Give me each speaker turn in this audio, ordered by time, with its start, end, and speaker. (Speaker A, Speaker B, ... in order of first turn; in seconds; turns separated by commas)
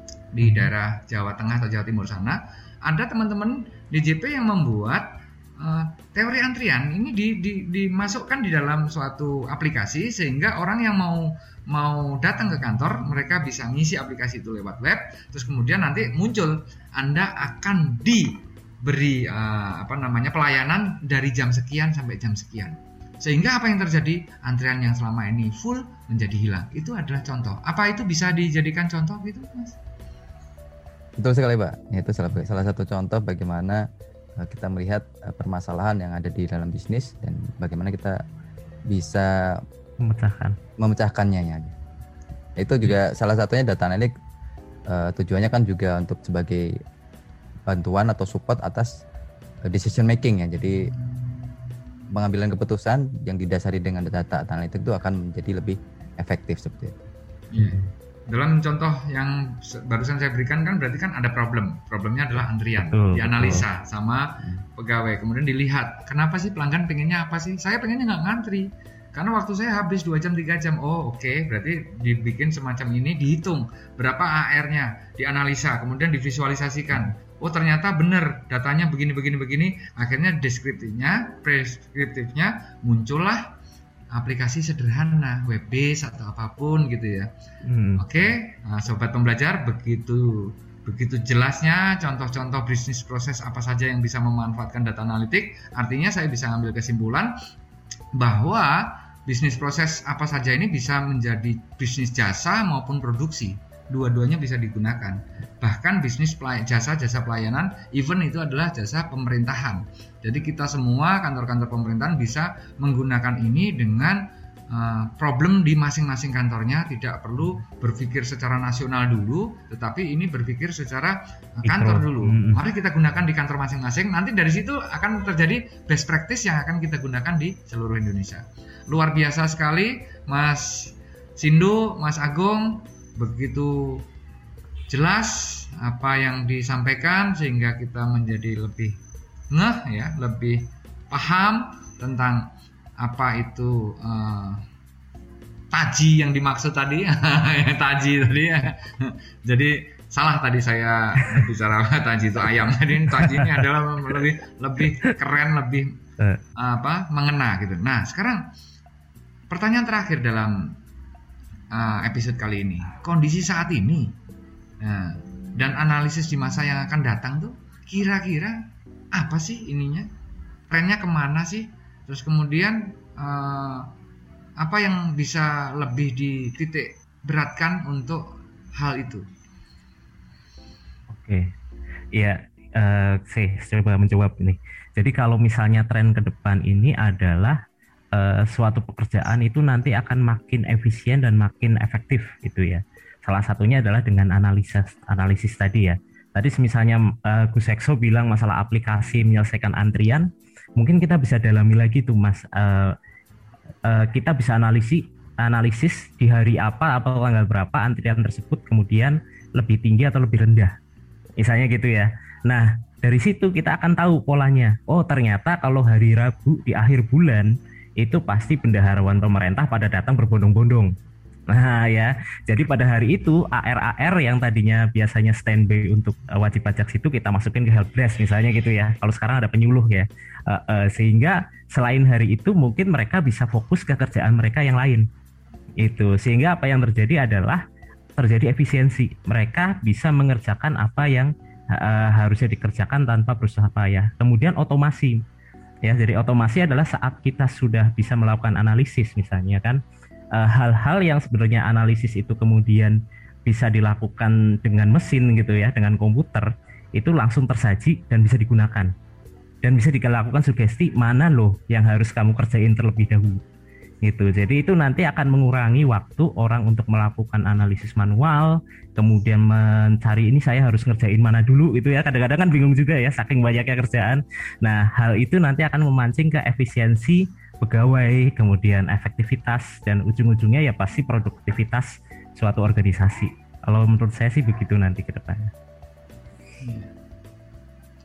Speaker A: 0.3-29.8, Speaker B: 0.4-0.7, Speaker C: 31.2-33.9, Speaker C: 34.4-38.2, Speaker C: 38.9-39.6, Speaker B: 40.0-40.5, Speaker C: 40.8-41.7, Speaker C: 42.6-44.1, Speaker C: 44.9-46.8, Speaker C: 47.6-49.0, Speaker C: 49.6-50.9, Speaker C: 52.1-57.0, Speaker A: 57.5-83.5, Speaker B: 62.8-63.6, Speaker A: 84.1-87.3, Speaker B: 87.6-88.1, Speaker A: 88.0-97.3, Speaker A: 98.2-134.1, Speaker B: 121.7-122.6, Speaker A: 134.9-139.0, Speaker A: 139.5-144.6, Speaker A: 145.7-156.0, Speaker B: 153.2-154.1, Speaker A: 156.6-158.5, Speaker A: 159.5-160.8, Speaker A: 161.7-164.2, Speaker A: 164.8-170.1, Speaker A: 170.7-173.9, Speaker A: 174.6-179.3, Speaker B: 181.1-181.5, Speaker B: 182.1-187.6, Speaker B: 188.1-202.9, Speaker B: 203.9-210.7, Speaker B: 211.4-220.9, Speaker B: 221.5-235.1, Speaker B: 235.8-237.6, Speaker B: 238.2-245.2, Speaker B: 245.8-249.8, Speaker B: 250.3-258.9, Speaker B: 259.6-263.4, Speaker B: 264.0-285.5, Speaker A: 286.6-286.9